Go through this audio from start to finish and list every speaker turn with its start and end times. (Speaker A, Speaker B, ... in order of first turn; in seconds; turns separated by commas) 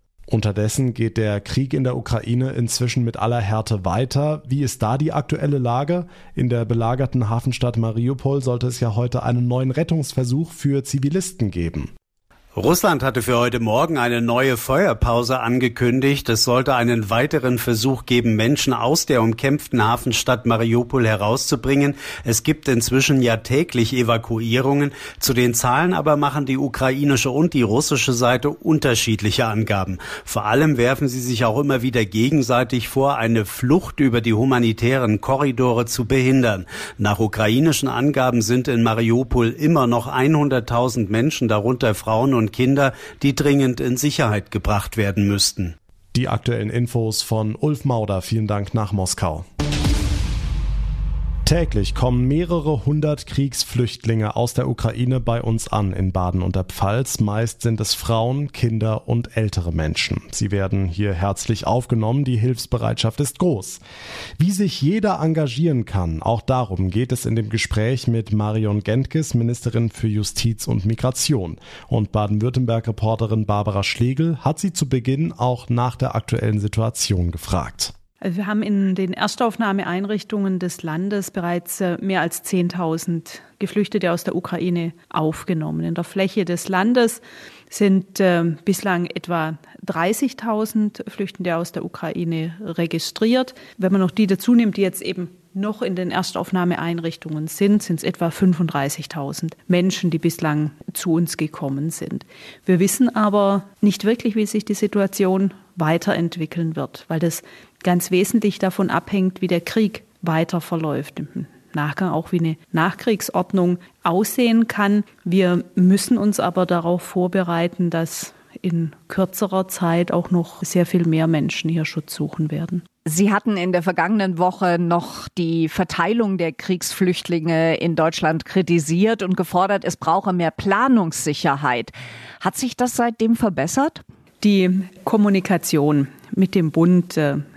Speaker A: 0.3-11.9, Speaker B: 12.5-45.7, Speaker A: 46.1-49.4, Speaker A: 51.5-63.8, Speaker A: 64.4-77.9, Speaker C: 78.2-122.8, Speaker D: 123.0-134.0, Speaker C: 134.4-137.4